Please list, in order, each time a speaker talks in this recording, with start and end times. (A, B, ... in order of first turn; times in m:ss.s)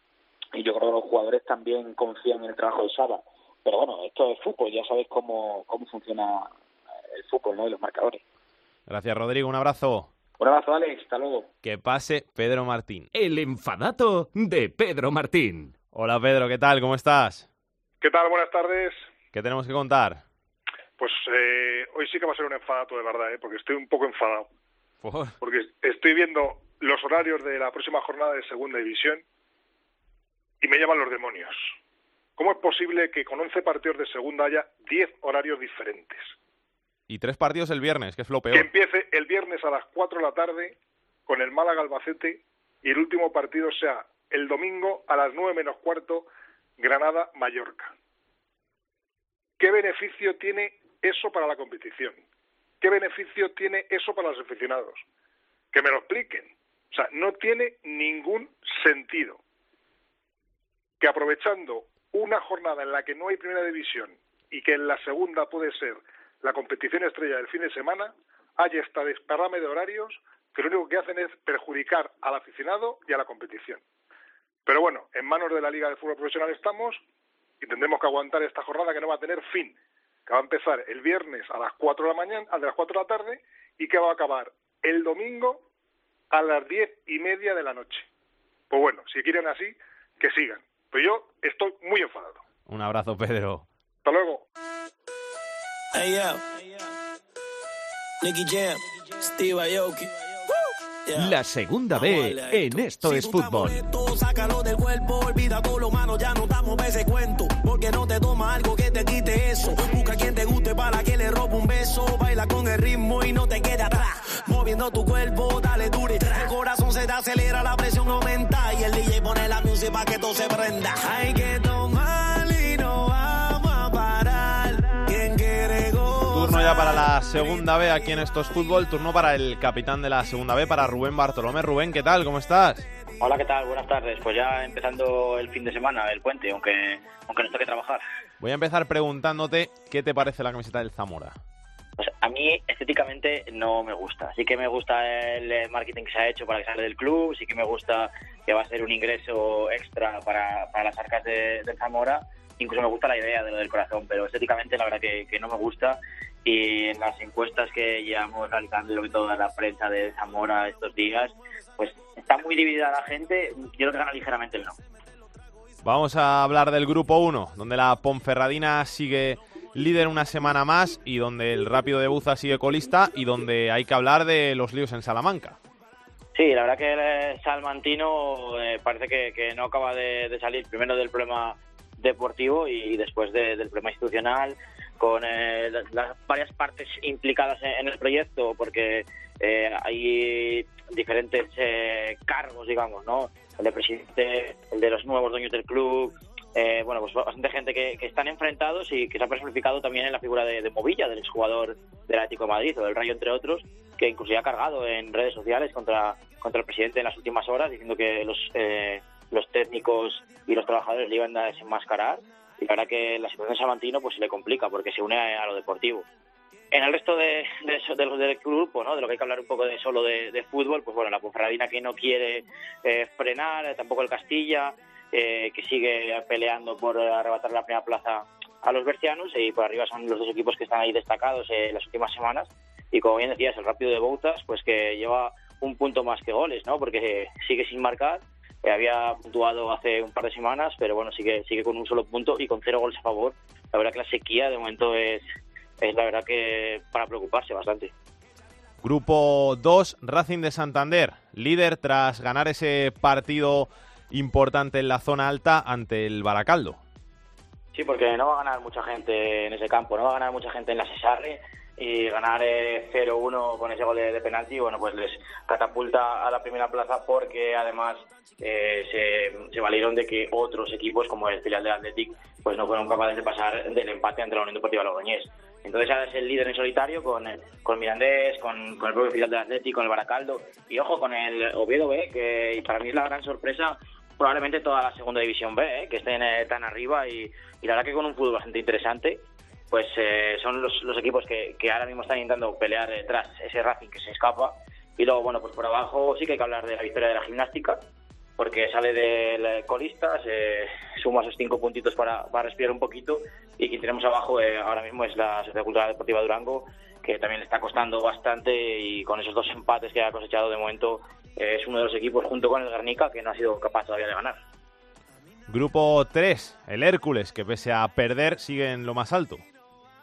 0:00.5-0:06.5 A
0:07.1-0:08.2 A
0:08.9-0:10.1 B
0:10.4-0:11.5 A
0:11.6-0:13.1 B
0:13.1-0:15.7 C
0:15.9-0:17.5 B
0:18.0-0:19.0 D
0:19.3-0:20.2 B
0:21.0-0:24.5 D
0:25.0-0:25.3 B
0:25.4-0:29.2 D
0:30.6-0:31.7 D
0:32.4-0:36.3 D
0:37.1-0:38.7 B
0:38.5-0:40.8 D
0:41.3-0:47.9 D
0:49.6-0:52.2 D
0:52.8-0:55.0 D
0:55.7-0:59.4 D
1:01.0-1:13.8 D
1:14.6-1:17.0 D
1:17.6-1:19.8 D
1:20.3-1:25.6 D
1:26.3-1:28.1 D
1:28.7-1:32.4 D
1:32.7-1:33.6 B
1:34.0-1:34.4 D
1:35.9-1:36.4 E
1:38.2-1:40.1 E
1:41.1-1:41.4 E
1:41.1-1:43.8 C
1:41.9-2:07.0 E
2:06.3-2:12.9 B
2:13.2-2:18.0 F
2:18.4-2:21.4 B
2:22.0-2:44.8 F
2:45.8-2:55.6 B
2:56.3-3:36.1 F
3:36.7-4:05.2 F
4:05.8-4:07.9 F
4:08.8-4:16.8 B
4:17.7-4:57.8 F
4:58.4-5:14.4 F
5:15.5-5:19.4 B